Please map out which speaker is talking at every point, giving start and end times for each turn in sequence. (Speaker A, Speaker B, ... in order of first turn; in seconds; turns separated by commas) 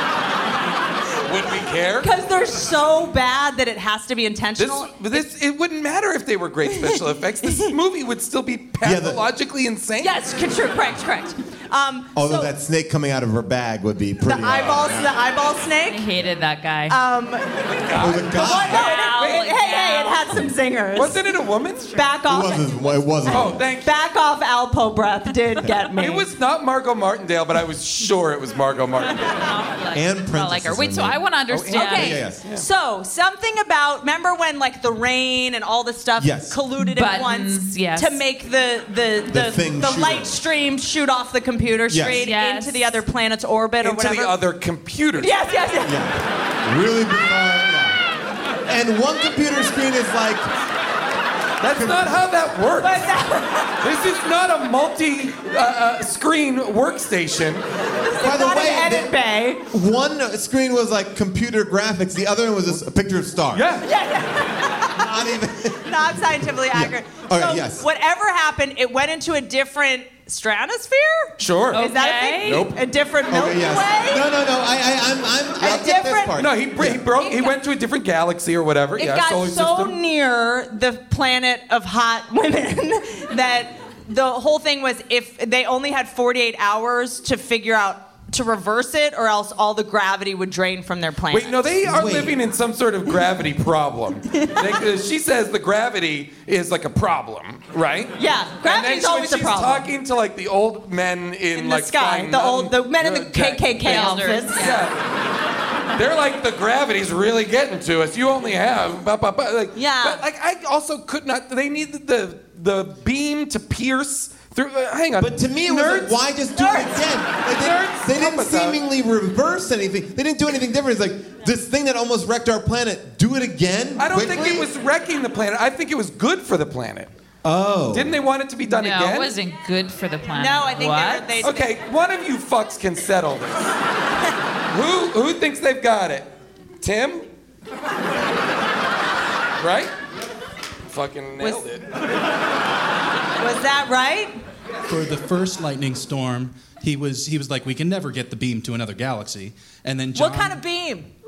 Speaker A: 1.2-2.1, Speaker B: 2.0-5.2, Speaker A: 4.6-10.1, Speaker B: 7.4-7.7, Speaker C: 8.8-9.2, Speaker B: 10.0-12.5, Speaker C: 12.1-15.2, Speaker B: 14.2-16.1, Speaker D: 15.9-16.9, Speaker B: 16.9-17.5, Speaker A: 17.8-18.3, Speaker C: 18.0-18.9, Speaker B: 18.4-21.2, Speaker D: 18.5-20.2, Speaker A: 20.9-22.0, Speaker B: 21.9-26.2, Speaker C: 22.3-23.6, Speaker A: 23.3-23.9, Speaker A: 25.9-29.3, Speaker D: 29.2-32.2, Speaker C: 29.9-31.2, Speaker A: 31.5-32.6, Speaker B: 31.7-44.4, Speaker C: 31.9-32.4, Speaker C: 36.2-36.6, Speaker D: 36.8-38.2, Speaker C: 39.3-40.4, Speaker C: 41.9-42.3, Speaker D: 42.2-42.8, Speaker A: 43.8-45.3, Speaker B: 45.2-46.0, Speaker C: 45.8-48.0, Speaker C: 48.7-50.4, Speaker A: 51.6-53.1, Speaker C: 51.7-52.2, Speaker B: 52.8-53.7, Speaker A: 53.8-57.6, Speaker B: 58.1-59.6, Speaker C: 58.2-59.1, Speaker C: 59.7-63.7, Speaker A: 63.5-63.9, Speaker B: 63.8-65.1, Speaker C: 65.0-65.9, Speaker B: 65.8-74.2, Speaker C: 66.7-67.8, Speaker A: 71.4-71.9, Speaker D: 71.7-72.6, Speaker A: 72.4-72.8, Speaker C: 73.3-77.0, Speaker B: 75.6-76.4, Speaker A: 76.3-80.0, Speaker B: 77.2-77.5, Speaker B: 79.0-91.8, Speaker A: 91.3-104.9, Speaker C: 91.8-92.4, Speaker B: 94.4-94.8, Speaker B: 98.2-99.9, Speaker B: 101.5-104.7, Speaker D: 103.8-104.8, Speaker A: 105.9-116.1, Speaker B: 109.8-110.2, Speaker C: 115.2-124.7, Speaker B: 116.5-117.0, Speaker A: 117.5-118.8, Speaker A: 124.0-127.1, Speaker C: 127.4-128.2, Speaker A: 127.9-129.3, Speaker D: 128.7-131.4, Speaker B: 130.3-131.7, Speaker A: 131.4-133.7, Speaker A: 134.7-137.2, Speaker A: 139.6-139.9, Speaker A: 140.9-141.8, Speaker B: 143.4-144.3, Speaker E: 144.9-150.6, Speaker B: 150.1-151.1